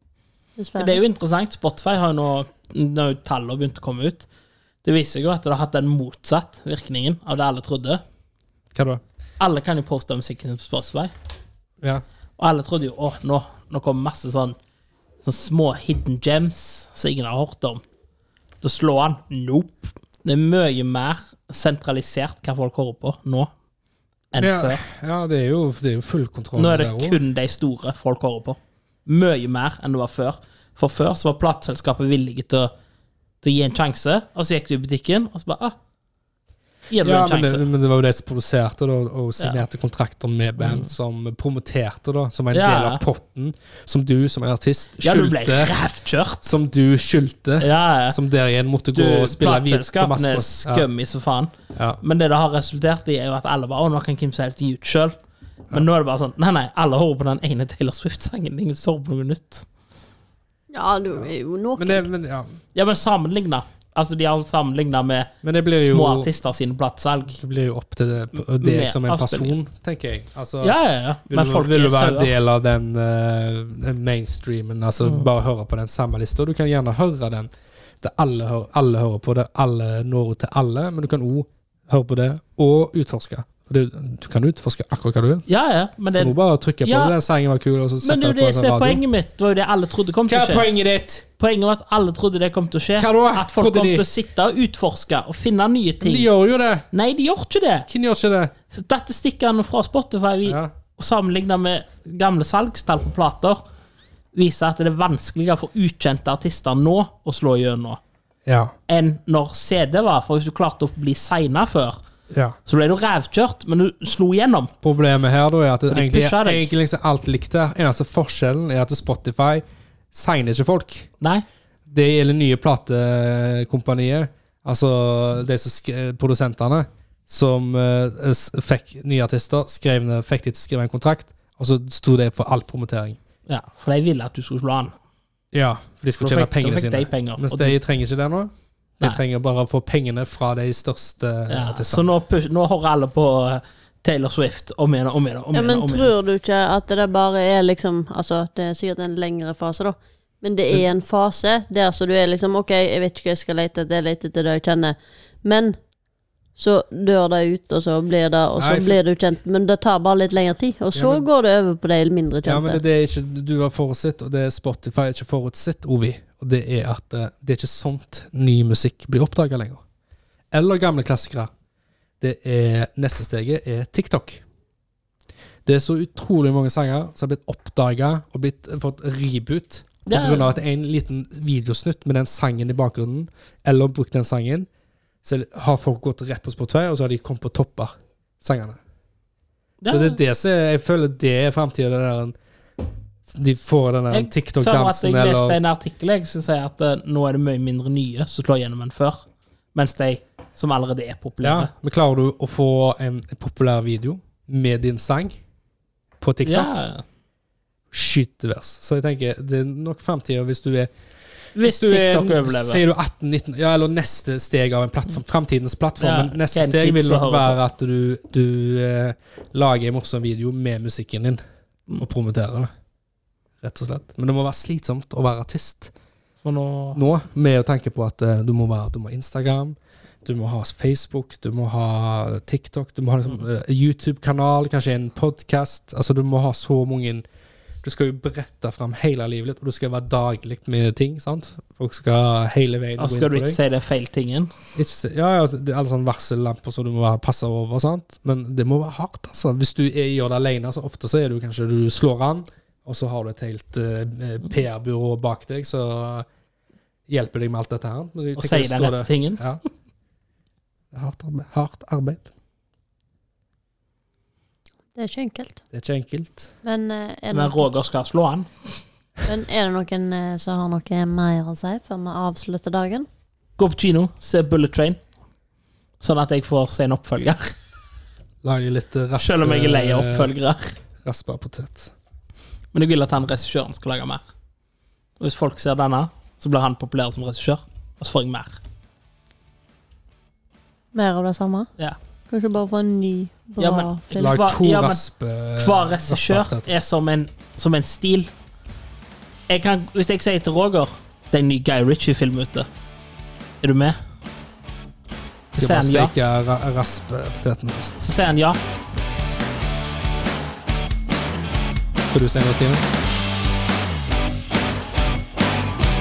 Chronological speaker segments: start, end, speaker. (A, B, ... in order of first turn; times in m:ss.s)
0:00.6-0:01.0 A
0:00.8-0:04.3 B
0:04.8-0:08.0 B
0:08.7-0:09.0 C
0:09.4-0:11.1 B
0:12.4-0:14.6 B
0:15.2-0:17.8 B
0:18.6-0:23.5 B
0:24.3-0:24.8 B
0:24.4-0:27.2 C
0:26.6-0:32.7 B
0:33.4-0:35.8 B
0:36.9-0:37.7 B
0:37.0-0:45.8 C
0:39.4-0:39.6 B
0:40.6-0:40.9 B
0:42.5-0:43.0 B
0:45.0-0:46.5 B
0:46.4-0:50.9 C
0:47.6-0:48.2 B
0:48.9-0:55.2 B
0:51.7-0:52.0 C
0:55.7-0:59.7 B
1:00.7-1:02.1 A
1:01.1-1:02.6 C
1:02.8-1:07.4 B
1:05.4-1:06.3 C
1:07.4-1:10.8 C
1:08.6-1:09.6 B
1:10.6-1:12.3 B
1:11.3-1:17.5 C
1:18.0-1:25.5 C
1:25.5-1:27.2 B
1:26.2-1:29.0 C
1:28.0-1:30.7 B
1:30.3-1:31.3 C
1:31.4-1:36.3 B
1:33.0-1:34.1 C
1:36.0-1:36.8 C
1:36.9-1:37.9 B
1:37.9-1:38.5 C
1:38.7-1:43.6 B
1:40.4-1:40.7 C
1:44.3-1:48.0 B
1:48.5-1:48.7 C
1:48.9-1:52.0 B
1:52.3-1:52.6 C
1:52.7-1:54.7 B
1:54.8-2:01.1 C
1:55.9-1:56.7 B
2:01.9-2:13.2 C
2:13.5-2:14.9 B
2:15.5-2:22.1 C
2:16.2-2:17.8 B
2:21.5-2:26.1 B
2:25.5-2:35.8 A
2:36.6-2:42.8 A
2:38.6-2:39.0 C
2:41.0-2:41.3 C
2:42.5-2:49.8 C
2:50.5-2:51.5 C
2:52.2-2:54.4 C
2:55.7-3:04.7 C
3:00.1-3:00.5 B
3:05.2-3:08.8 C
3:09.8-3:10.2 B
3:09.9-3:12.4 C
3:13.3-3:15.6 C
3:14.1-3:21.7 B
3:21.4-3:25.4 C
3:26.2-3:26.8 C
3:26.4-3:27.0 B
3:27.9-3:30.9 C
3:31.6-3:32.8 B
3:31.6-3:41.4 C
3:36.0-3:37.6 B
3:42.0-3:42.7 C
3:43.6-3:45.9 C
3:46.4-3:47.0 B
3:47.0-3:57.2 C
3:57.8-4:03.6 C
4:03.0-4:04.5 B
4:04.8-4:16.3 C
4:17.1-4:19.6 C
4:18.4-4:19.4 B
4:20.9-4:22.3 C
4:25.0-4:25.6 A
4:25.7-4:26.5 C
4:26.6-4:27.7 A
4:27.3-4:28.7 B
4:29.2-4:33.1 A
4:33.6-4:35.0 B
4:36.0-4:37.6 B
4:38.4-4:40.3 C
4:39.2-4:40.8 B
4:41.0-4:41.9 C
4:42.7-4:44.3 B
4:45.2-4:48.6 B
4:50.9-4:51.7 A
4:52.3-4:54.4 A
4:53.6-4:55.0 B
4:54.2-4:56.7 C
4:55.6-4:58.3 B
4:59.5-5:02.7 B
5:03.6-5:04.0 B
5:05.5-5:06.1 B
5:05.6-5:08.2 C
5:08.0-5:08.6 B
5:12.1-5:12.8 C